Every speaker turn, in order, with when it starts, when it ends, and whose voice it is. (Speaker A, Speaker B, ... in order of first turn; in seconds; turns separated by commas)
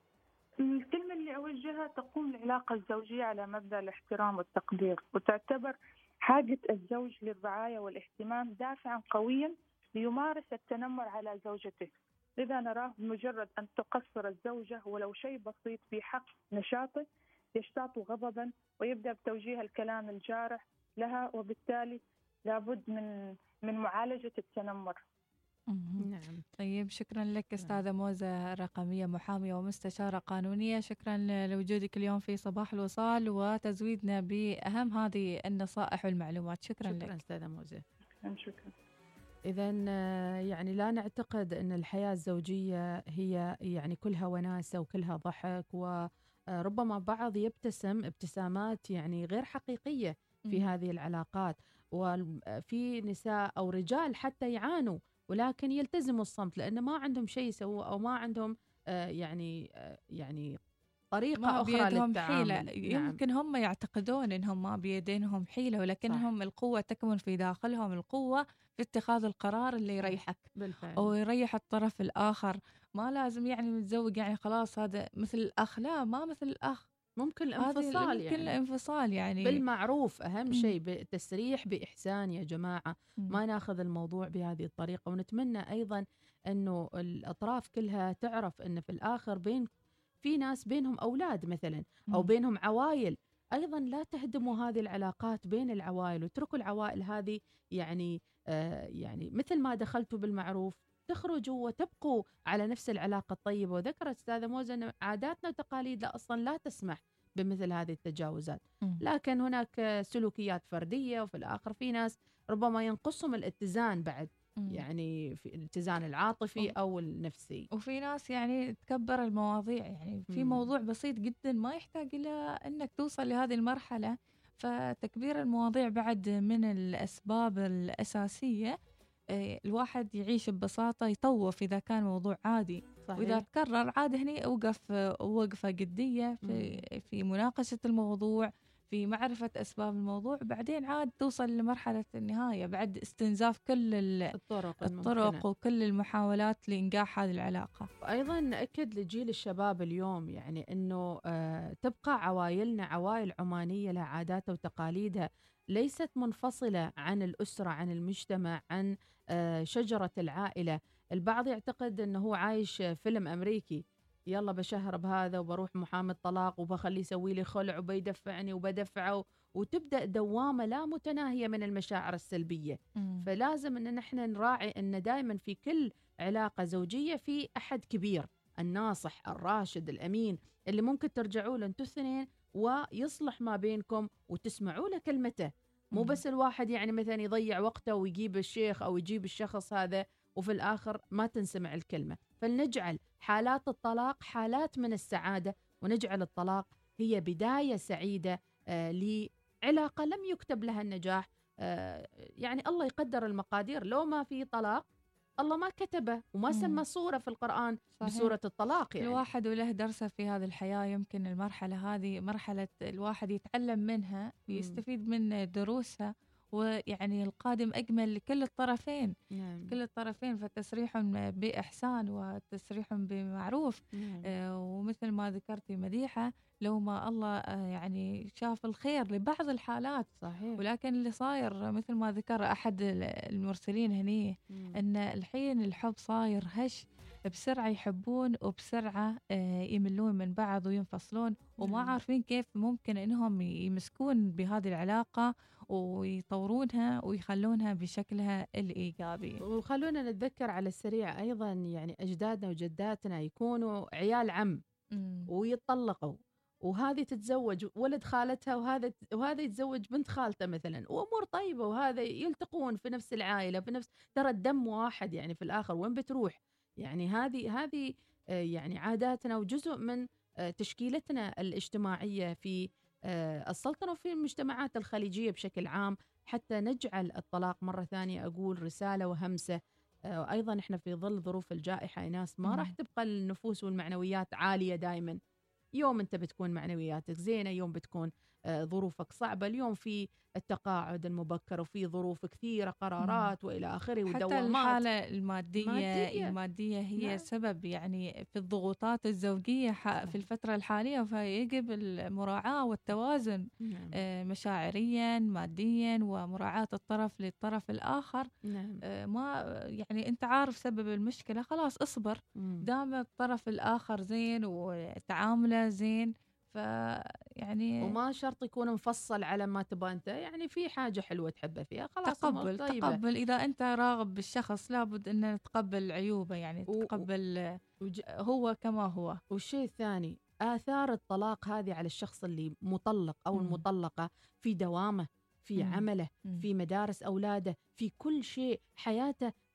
Speaker A: 0.6-17.0, Speaker A: 17.5-23.1, Speaker A: 23.6-25.0, Speaker B: 25.7-37.2, Speaker C: 26.0-26.4, Speaker C: 36.9-37.8, Speaker A: 38.2-38.7, Speaker C: 39.5-45.9, Speaker C: 46.6-60.5, Speaker C: 61.1-63.2, Speaker B: 61.4-70.5, Speaker C: 70.0-71.1, Speaker B: 71.0-76.8, Speaker C: 77.2-78.5, Speaker B: 77.6-79.6, Speaker C: 79.4-89.6, Speaker C: 90.2-117.7, Speaker B: 117.8-128.7, Speaker C: 120.3-120.7, Speaker B: 129.3-147.9, Speaker C: 133.1-133.4, Speaker C: 136.4-136.8, Speaker C: 144.3-145.4, Speaker C: 148.0-163.8, Speaker C: 164.3-204.8, Speaker B: 173.0-173.3, Speaker B: 185.9-186.2, Speaker C: 205.4-209.2, Speaker B: 206.5-206.8, Speaker B: 208.0-208.3, Speaker B: 209.0-219.1, Speaker C: 214.5-214.8, Speaker C: 219.3-219.7, Speaker B: 219.7-230.1, Speaker C: 223.9-224.3, Speaker C: 230.2-230.6, Speaker B: 230.6-249.4, Speaker C: 234.5-234.8, Speaker C: 241.6-242.0, Speaker C: 249.5-254.6, Speaker B: 254.9-255.3, Speaker C: 255.3-256.1, Speaker C: 256.6-267.9, Speaker C: 268.5-270.0, Speaker C: 270.5-279.6, Speaker C: 280.1-285.2, Speaker B: 282.4-282.7, Speaker C: 285.8-294.8, Speaker B: 293.0-293.3, Speaker B: 294.1-303.4, Speaker C: 295.6-296.3, Speaker C: 297.0-297.2, Speaker C: 303.6-304.0, Speaker B: 304.0-308.3, Speaker C: 308.4-308.8, Speaker B: 308.9-309.3, Speaker B: 309.8-316.6, Speaker C: 312.4-312.6, Speaker B: 317.4-317.7, Speaker C: 317.8-323.0, Speaker B: 322.1-327.3, Speaker C: 326.7-327.0, Speaker B: 328.2-329.2, Speaker C: 329.3-339.3, Speaker B: 333.3-333.6, Speaker B: 335.6-336.4